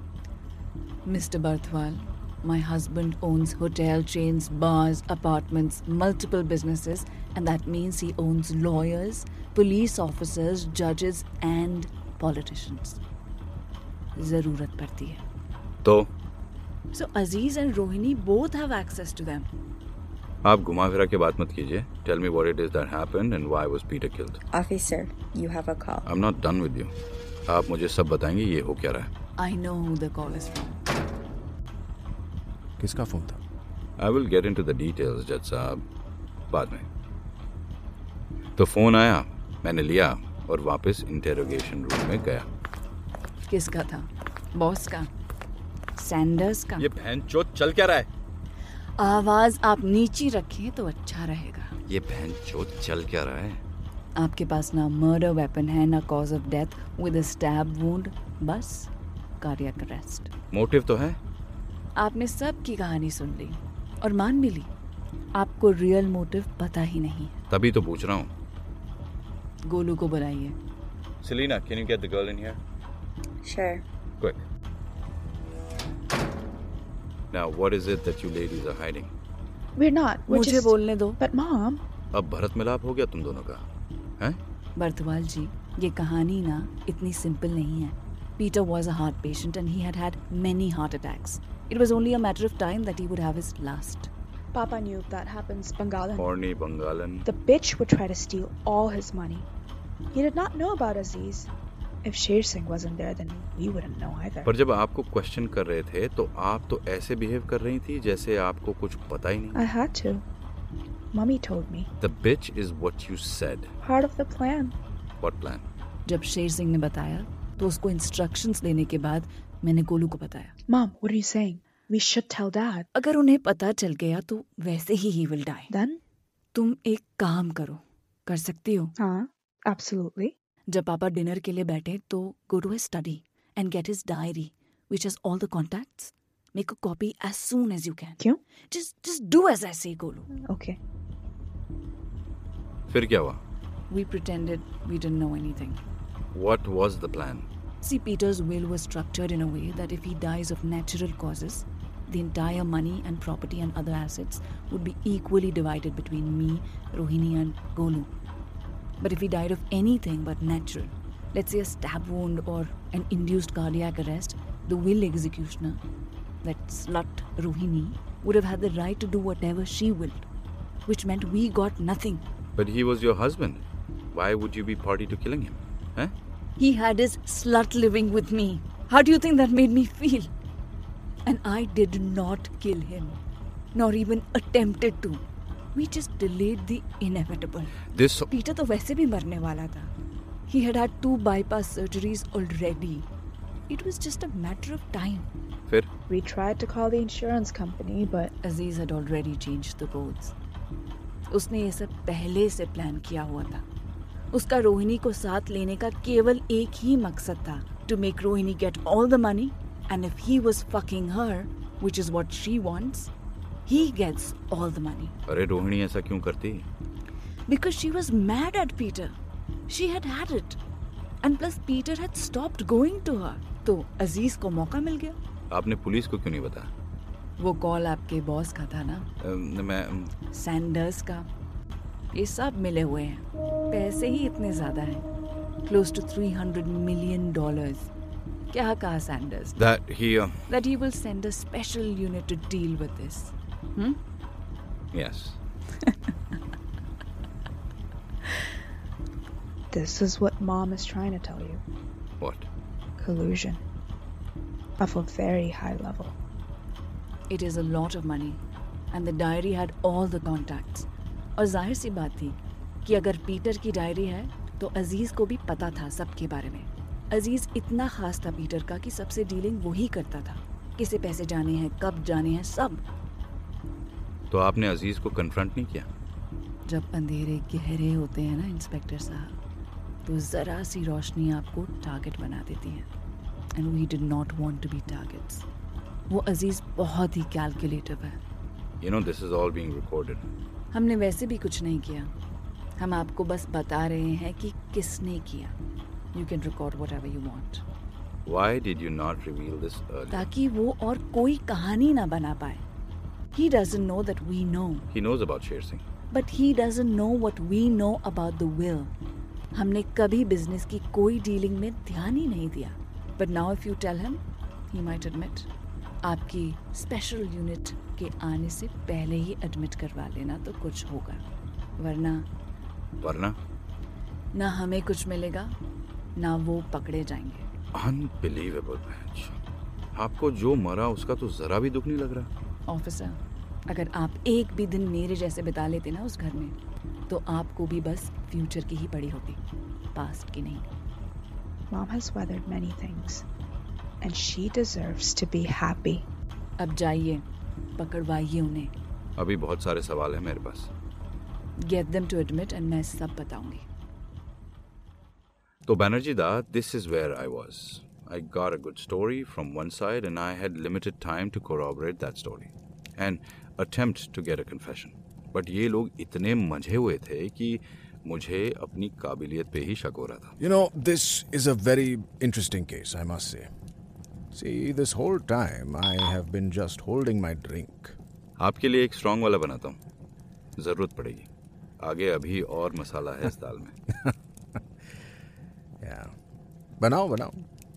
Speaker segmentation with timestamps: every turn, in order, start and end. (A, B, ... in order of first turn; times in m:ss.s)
0:01.0-0:13.0 A
0:14.2-0:15.2 A
0:15.8-0:16.1 B
0:16.9-0:19.5 A
0:20.4-0:24.4 B
0:24.5-0:26.0 C
0:26.0-0:26.9 B
0:27.5-0:29.1 B
0:29.4-0:30.8 A
0:32.8-0:33.4 D
0:34.0-0:35.8 B
0:36.5-0:36.8 B
0:38.6-0:42.5 B
0:43.5-0:45.1 A
0:46.0-0:46.9 A
0:46.8-0:48.1 B
0:49.0-0:51.7 A
0:51.9-0:53.6 B
0:54.2-1:00.3 A
1:00.5-1:01.2 B
1:02.0-1:04.7 A
1:05.4-1:07.4 A
1:07.5-1:08.3 B
1:09.7-1:10.6 A
1:11.2-1:12.6 B
1:13.4-1:13.8 C
1:17.3-1:19.1 B
1:19.8-1:21.8 E
1:20.3-1:21.2 A
1:22.1-1:23.6 B
1:24.8-1:34.1 A
1:34.5-1:36.3 E
1:36.2-1:37.3 B
1:37.2-1:39.5 E
1:40.1-1:41.5 E
1:42.0-1:44.5 E
1:44.4-1:49.7 B
1:49.5-1:50.2 E
1:51.1-1:51.9 E
1:52.0-1:53.7 B
1:53.8-1:54.7 E
1:55.2-1:55.6 B
1:56.0-2:00.5 A
2:00.7-2:02.9 E
2:02.9-2:05.7 A
2:05.7-2:06.0 E
2:06.5-2:08.9 A
2:09.0-2:10.3 E
2:10.7-2:20.3 A
2:20.4-2:20.8 E
2:22.9-2:23.4 B
2:23.9-2:25.8 A
2:26.3-2:27.5 B
2:27.8-2:38.1 A
2:39.0-2:45.8 A
2:46.4-2:50.2 A
2:50.8-2:52.2 A
2:52.6-2:53.6 B
2:54.1-2:56.1 B
2:56.6-3:00.3 A
3:01.2-3:03.2 A
3:03.7-3:05.2 A
3:05.7-3:07.8 A
3:07.9-3:08.3 B
3:08.3-3:09.9 A
3:10.5-3:13.1 A
3:13.7-3:15.3 A
3:16.1-3:18.3 E
3:18.4-3:20.3 A
3:21.3-3:23.6 A
3:24.3-3:33.1 A
3:33.6-3:35.1 A
3:35.2-3:36.7 B
3:37.5-3:39.2 A
3:39.7-3:40.6 A
3:41.2-3:45.2 A
3:45.5-3:46.7 B
3:47.4-3:49.1 A
3:49.2-3:50.1 B
3:50.3-3:51.3 A
3:52.1-3:55.0 A
3:55.6-3:57.9 A
3:58.5-3:59.6 A
3:59.6-4:00.4 B
4:00.5-4:04.0 A
4:04.9-4:05.4 B
4:09.7-4:11.6 E
4:12.2-4:12.5 B
4:13.0-4:13.6 E
4:14.8-4:16.2 E
4:17.3-4:18.4 A
4:18.9-4:32.8 A
4:34.3-4:35.9 B
4:36.7-4:39.4 A
4:40.0-4:42.9 A
4:43.6-4:45.4 A
4:46.1-4:48.2 A
4:48.8-4:50.2 B
4:50.7-4:52.1 A
4:52.8-4:55.5 A
4:56.1-4:57.6 A
4:58.2-5:00.3 B
5:00.1-5:02.6 A
5:03.3-5:04.9 A
5:04.9-5:05.8 B
5:06.1-5:08.9 A
5:09.5-5:15.5 A
5:16.0-5:21.2 A
5:21.8-5:22.3 A
5:23.0-5:23.4 B
5:24.3-5:25.5 A
5:26.2-5:27.5 A
5:27.7-5:29.4 B
5:29.9-5:32.3 B
5:32.7-5:36.5 A
5:37.1-5:39.4 A
5:39.9-5:40.6 A
5:41.7-5:43.2 E
5:44.0-5:46.0 E
5:46.6-5:47.2 A
5:47.8-5:48.7 A
5:49.2-5:50.7 B
5:51.6-5:53.6 A
5:55.6-6:10.3 B
6:10.4-6:13.5 D
6:14.3-6:18.0 D
6:18.4-6:19.8 B
6:20.6-6:21.3 B
6:21.8-6:23.8 B
6:25.8-6:26.1 D
6:26.8-6:27.4 D